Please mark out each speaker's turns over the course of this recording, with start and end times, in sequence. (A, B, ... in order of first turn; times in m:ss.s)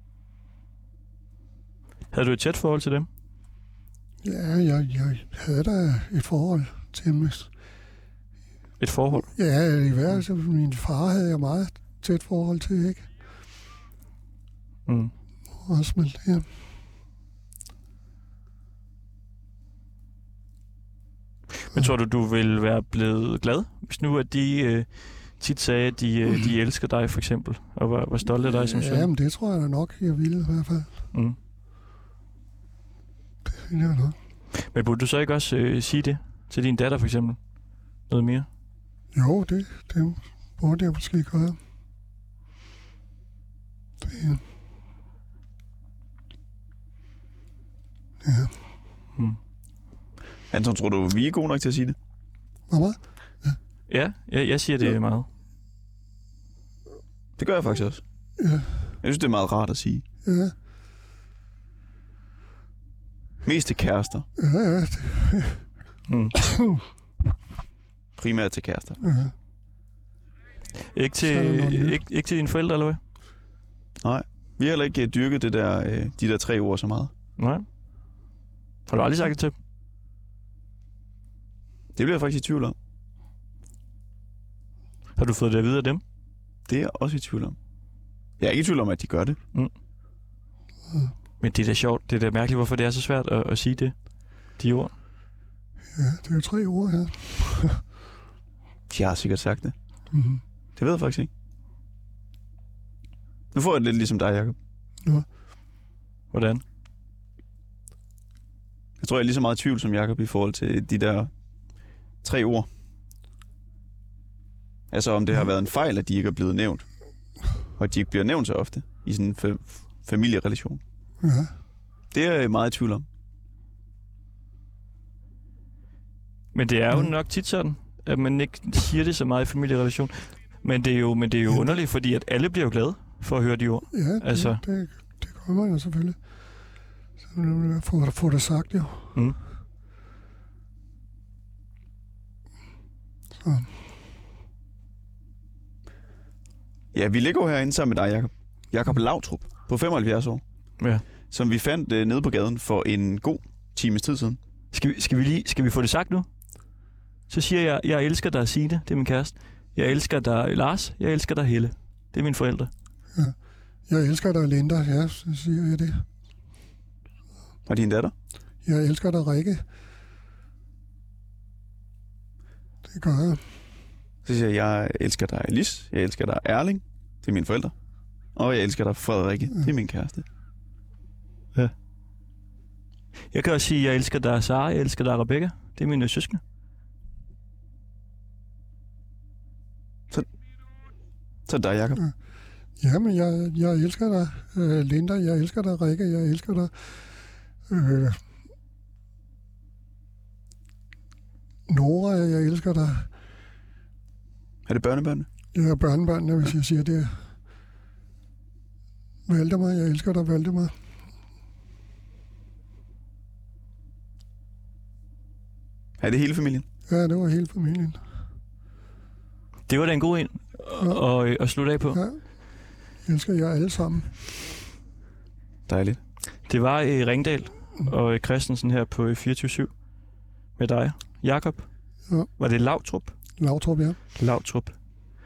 0:02.1-0:03.1 A
0:04.2-0:07.5 B
0:08.8-0:09.3 A
0:09.3-0:13.1 B
0:14.8-0:15.1 A
0:15.6-0:16.5 B
0:21.6-0:29.1 A
0:28.3-0:31.0 B
0:33.4-0:34.2 B
0:34.6-0:37.4 A
0:38.0-0:38.5 A
0:39.1-0:41.6 B
0:44.0-0:44.4 B
0:48.2-0:48.6 B
0:50.5-0:52.0 C
0:52.7-0:53.6 B
0:53.9-0:55.3 A
0:57.4-0:58.0 C
0:58.4-0:59.0 B
0:59.0-1:00.0 C
1:00.2-1:00.5 B
1:03.4-1:04.3 C
1:04.4-1:05.7 B
1:06.1-1:06.4 A
1:08.2-1:09.0 C
1:09.0-1:09.3 B
1:10.9-1:13.0 A
1:11.2-1:12.0 B
1:14.0-1:17.1 C
1:17.4-1:17.6 A
1:18.9-1:19.5 A
1:22.0-1:22.7 C
1:25.2-1:26.0 A
1:26.7-1:27.6 C
1:28.4-1:29.4 C
1:31.4-1:34.9 A
1:35.9-1:37.8 B
1:38.9-1:39.7 C
1:40.1-1:40.4 B
1:40.8-1:41.3 C
1:43.5-1:44.6 C
1:46.3-1:46.6 A
1:49.0-1:51.3 C
1:52.2-1:52.7 C
1:54.9-1:56.9 C
1:57.8-2:00.8 C
2:01.2-2:01.5 B
2:02.1-2:03.0 C
2:06.5-2:14.6 A
2:11.5-2:11.8 B
2:13.9-2:16.4 B
2:17.2-2:19.2 B
2:23.4-2:23.8 B
2:26.9-2:30.4 C
2:30.8-2:31.0 A
2:31.2-2:34.4 C
2:34.7-2:36.3 A
2:37.3-2:42.7 A
2:43.1-2:46.0 B
2:47.7-2:48.1 C
2:48.6-2:49.6 B
2:52.8-2:53.6 B
2:54.2-2:57.7 C
2:58.3-3:00.2 C
3:03.3-3:06.4 A
3:11.4-3:12.0 C
3:12.8-3:18.2 B
3:21.7-3:23.1 B
3:24.6-3:25.3 C
3:25.5-3:27.3 B
3:29.2-3:30.8 B
3:36.0-3:36.6 C
3:36.9-3:38.0 B
3:39.7-3:42.0 A
3:41.9-3:44.4 B
3:45.7-3:46.0 C
3:46.4-3:49.8 A
3:50.5-3:53.4 A
3:53.4-3:54.0 B
3:54.2-3:54.8 A